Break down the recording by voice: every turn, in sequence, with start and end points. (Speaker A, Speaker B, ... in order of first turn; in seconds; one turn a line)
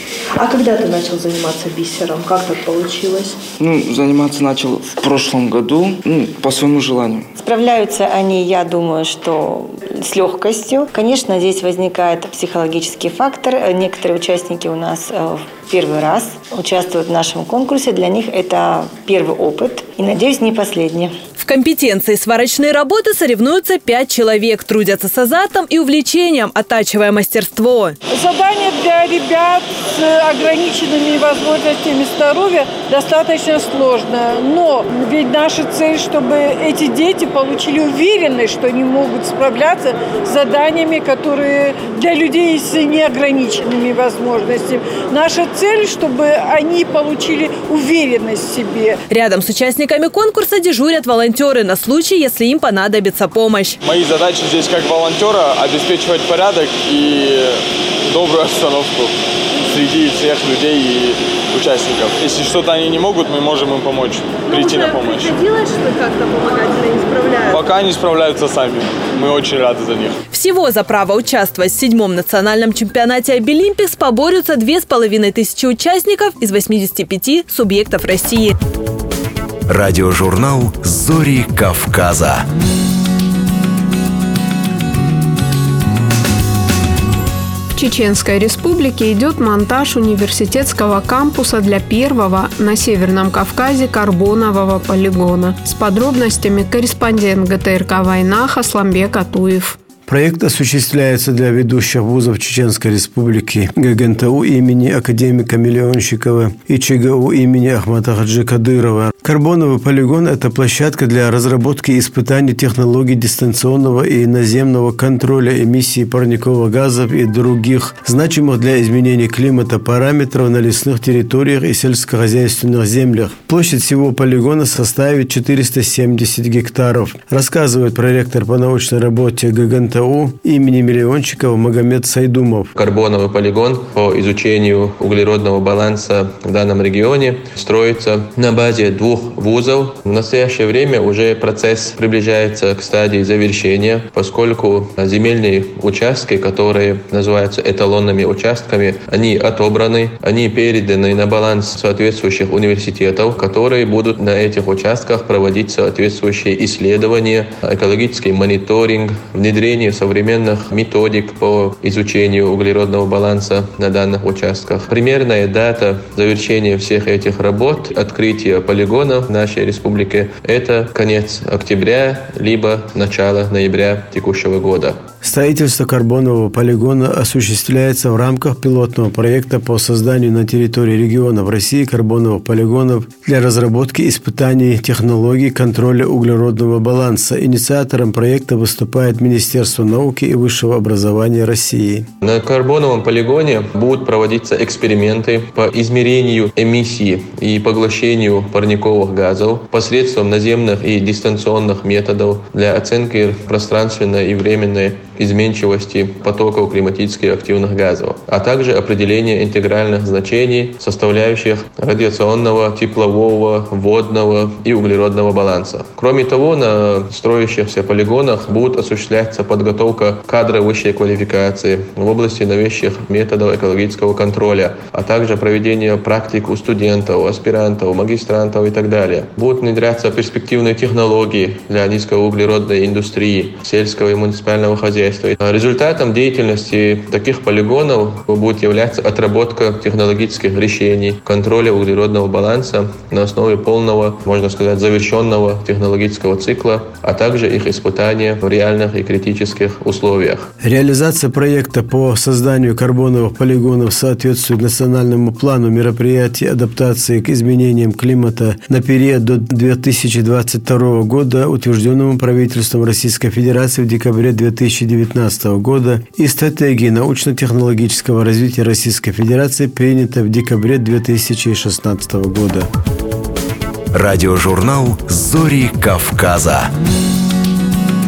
Speaker A: 0.4-3.4
Speaker B: 3.6-7.3
Speaker A: 7.4-21.1
Speaker C: 21.4-28.0
Speaker D: 28.1-49.0
Speaker C: 49.1-53.8
Speaker E: 53.9-57.6
Speaker E: 58.1-59.1
Speaker E: 59.7-65.3
Speaker C: 64.5-67.5
Speaker E: 67.5-70.2
Speaker C: 70.3-78.5
Speaker F: 79.7-82.5
Speaker G: 87.8-99.8
Speaker H: 100.1-132.7
Speaker I: 132.8-175.0
Speaker H: 175.2-192.1
Speaker I: 192.2-250.5
Speaker H: 250.6-272.7
Speaker F: 273.9-276.7